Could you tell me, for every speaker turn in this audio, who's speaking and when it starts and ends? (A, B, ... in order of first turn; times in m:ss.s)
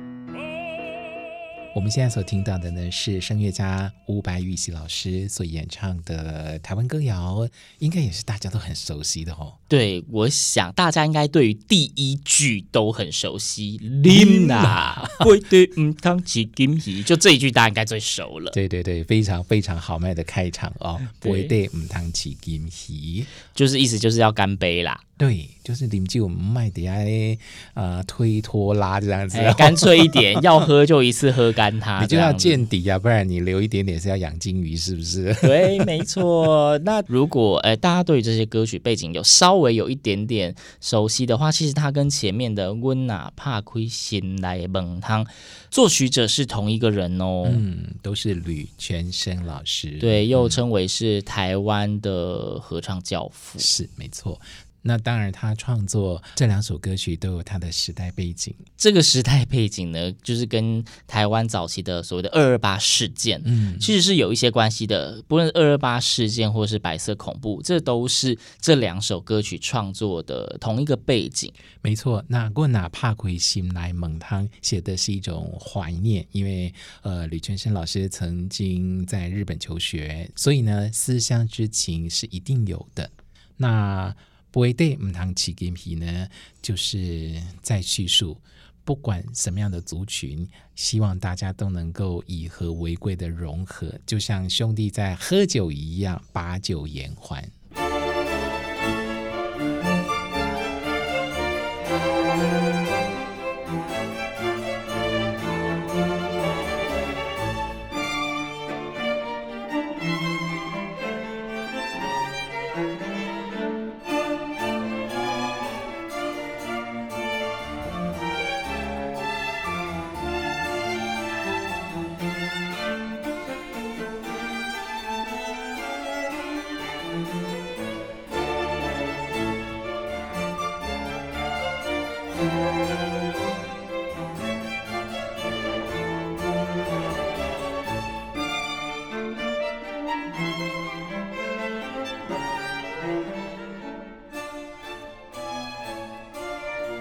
0:01.7-0:09.6 A
0:09.7-0:18.6 B
0:14.0-0:15.2 A
0:18.5-0:23.3 A
0:21.1-0:21.5 B
0:23.5-0:25.0 B
0:25.2-0:30.6 A
0:29.3-0:32.6 B
0:32.0-0:36.0 A
0:35.4-0:47.6 B
0:47.4-0:50.6 A
0:50.0-0:53.7 B
0:53.6-0:58.6 A
0:58.8-1:11.5 B
1:03.4-1:03.9 A
1:11.8-1:37.5 A